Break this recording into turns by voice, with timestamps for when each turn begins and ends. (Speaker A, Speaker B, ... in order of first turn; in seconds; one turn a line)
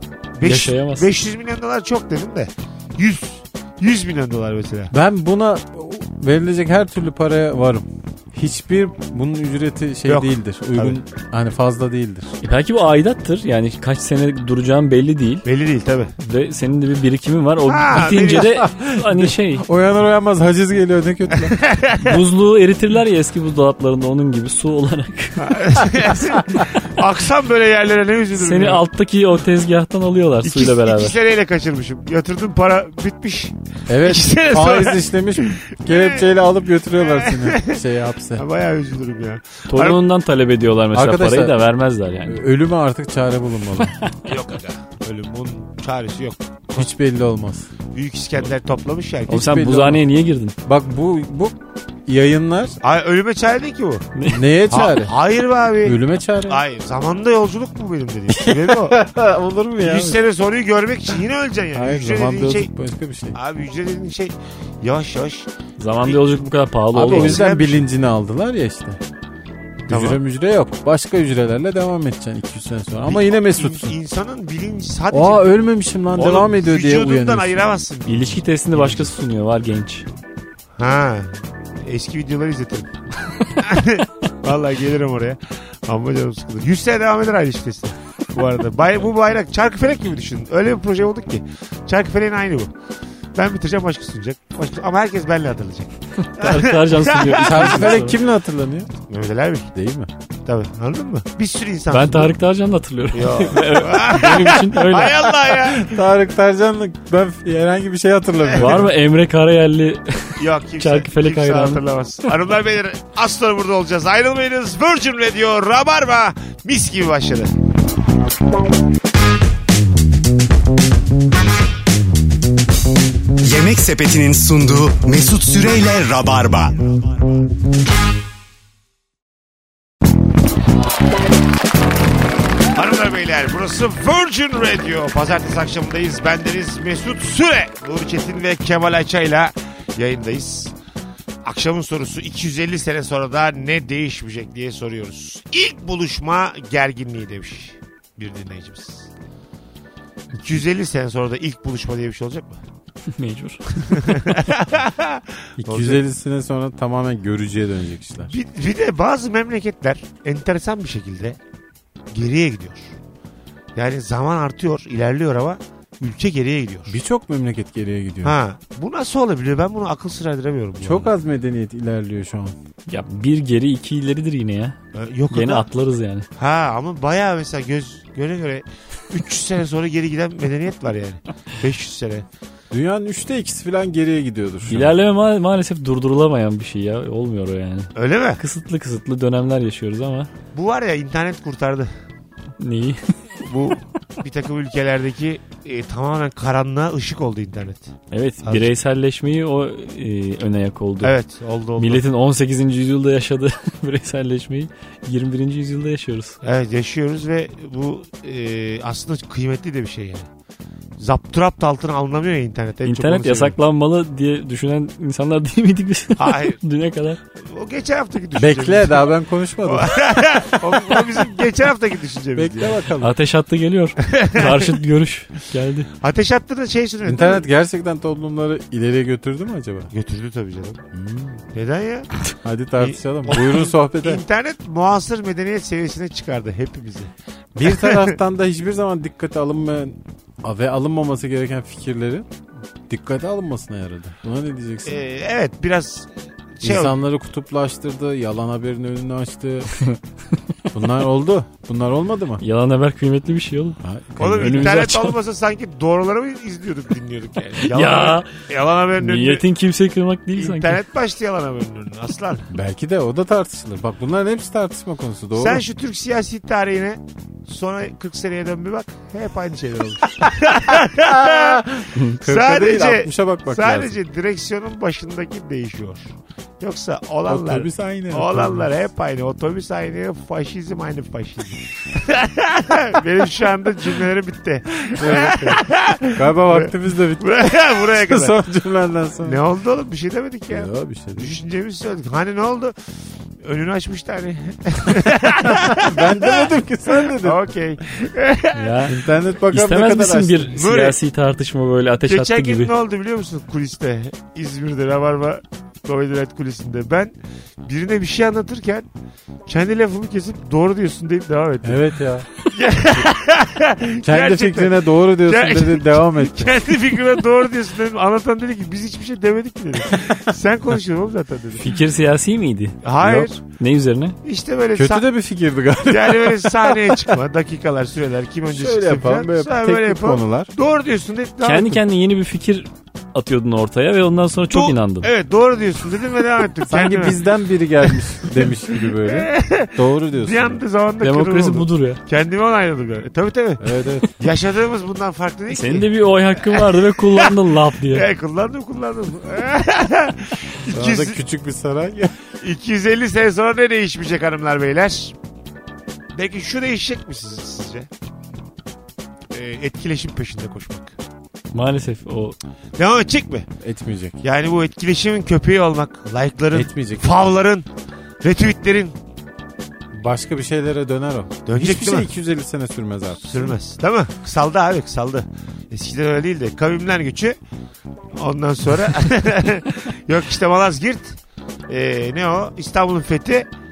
Speaker A: 0.4-4.9
Speaker B: 0.4-1.1
Speaker C: 4.9-12.3
Speaker A: 10.1-11.0
Speaker B: 12.4-15.4
Speaker A: 15.4-16.1
Speaker B: 16.2-19.7
Speaker A: 17.6-18.7
Speaker C: 18.7-21.6
Speaker A: 21.5-22.2
Speaker B: 21.9-25.5
Speaker A: 25.4-28.8
Speaker B: 28.4-31.2
Speaker A: 30.4-36.3
Speaker C: 33.9-38.4
Speaker A: 37.0-37.8
Speaker A: 38.4-40.0
Speaker B: 39.7-42.4
Speaker C: 40.9-41.6
Speaker C: 42.3-44.0
Speaker B: 43.8-44.1
Speaker A: 44.3-46.9
Speaker C: 46.8-47.7
Speaker A: 47.9-49.5
Speaker B: 49.3-50.5
Speaker C: 49.3-50.0
Speaker C: 50.6-52.8
Speaker A: 52.8-54.1
Speaker B: 54.2-54.4
Speaker C: 54.3-55.1
Speaker A: 54.7-59.0
Speaker C: 55.8-56.6
Speaker C: 58.3-60.2
Speaker A: 59.8-62.7
Speaker C: 61.7-63.4
Speaker A: 63.3-65.5
Speaker B: 65.8-67.4
Speaker A: 67.0-67.9
Speaker C: 67.0-69.0
Speaker A: 69.9-70.2
Speaker C: 69.9-74.0
Speaker A: 73.1-75.6
Speaker C: 75.1-77.6
Speaker A: 76.1-79.0
Speaker B: 78.1-80.1
Speaker A: 80.8-82.9
Speaker A: 83.5-92.7
Speaker A: 93.3-98.0
Speaker B: 96.3-98.2
Speaker C: 97.4-98.9
Speaker A: 99.1-99.7
Speaker C: 99.7-100.1
Speaker A: 100.5-102.3
Speaker B: 101.9-105.3
Speaker A: 103.1-106.0
Speaker C: 105.7-108.9
Speaker B: 108.6-111.8
Speaker A: 110.4-117.5
Speaker D: 123.4-127.0
Speaker A: 132.8-140.7
Speaker A: 141.4-149.1
Speaker A: 150.3-152.6
Speaker B: 153.1-154.3
Speaker A: 153.9-156.0
Speaker C: 155.6-158.3
Speaker A: 158.3-161.4
Speaker A: 162.1-163.0
Speaker A: 163.8-167.0
Speaker C: 166.9-168.4
Speaker A: 168.2-171.1
Speaker C: 170.8-172.6
Speaker B: 172.9-174.8
Speaker A: 174.9-175.7
Speaker B: 175.3-176.3
Speaker A: 176.4-182.2
Speaker C: 182.7-184.9
Speaker B: 184.7-190.3
Speaker A: 187.9-188.4
Speaker A: 190.5-191.9
Speaker B: 192.6-193.2
Speaker A: 193.4-197.9
Speaker B: 198.1-201.2
Speaker A: 198.4-198.7
Speaker A: 201.0-202.1
Speaker B: 201.8-206.4
Speaker A: 206.4-210.3
Speaker A: 211.0-213.6
Speaker B: 212.8-217.2
Speaker A: 216.2-216.6
Speaker A: 217.4-222.8
Speaker C: 218.4-220.0
Speaker C: 222.4-223.2
Speaker B: 223.0-225.9
Speaker A: 224.0-224.8
Speaker A: 226.0-227.4
Speaker C: 227.1-229.9
Speaker A: 229.9-230.8
Speaker C: 230.9-231.4
Speaker A: 231.5-232.1
Speaker C: 232.4-234.2
Speaker A: 232.8-237.1
Speaker C: 237.6-242.3
Speaker A: 237.6-238.1
Speaker C: 242.9-245.0
Speaker A: 244.8-247.0
Speaker C: 246.6-249.8
Speaker C: 250.7-252.4
Speaker B: 252.4-253.8
Speaker C: 253.8-254.7
Speaker A: 254.2-259.4
Speaker B: 254.3-255.2
Speaker B: 257.7-258.4
Speaker B: 259.0-260.8
Speaker A: 260.4-262.5
Speaker C: 262.5-265.6
Speaker A: 265.4-288.4
Speaker C: 271.0-274.0
Speaker C: 277.3-278.7
Speaker C: 285.0-287.2
Speaker C: 287.9-289.4
Speaker A: 289.2-292.8
Speaker C: 290.5-291.4
Speaker A: 293.4-298.9
Speaker C: 295.4-297.4
Speaker B: 298.6-302.7
Speaker C: 298.9-300.5
Speaker A: 300.5-301.0
Speaker A: 302.0-307.1
Speaker A: 307.6-308.9
Speaker A: 309.5-311.8
Speaker C: 311.6-312.3
Speaker A: 312.4-321.7
Speaker C: 314.0-316.6
Speaker B: 321.6-324.2
Speaker A: 322.8-323.4
Speaker A: 324.2-325.1
Speaker C: 324.8-327.1
Speaker A: 325.9-331.8
Speaker C: 328.5-330.5
Speaker B: 331.4-335.1
Speaker A: 334.5-337.2
Speaker C: 336.7-340.6
Speaker A: 337.9-347.3
Speaker B: 341.0-342.0
Speaker C: 343.6-344.1
Speaker B: 345.5-348.1
Speaker A: 347.9-351.2
Speaker C: 350.7-352.2
Speaker A: 352.4-355.1
Speaker A: 356.1-357.9
Speaker A: 359.3-361.0
Speaker B: 361.5-362.4
Speaker A: 362.8-363.5
Speaker C: 363.6-364.2
Speaker A: 364.2-367.7
Speaker C: 366.5-367.1
Speaker A: 368.2-369.0
Speaker C: 369.9-373.6
Speaker A: 371.5-372.1
Speaker A: 373.2-377.4
Speaker A: 378.1-383.5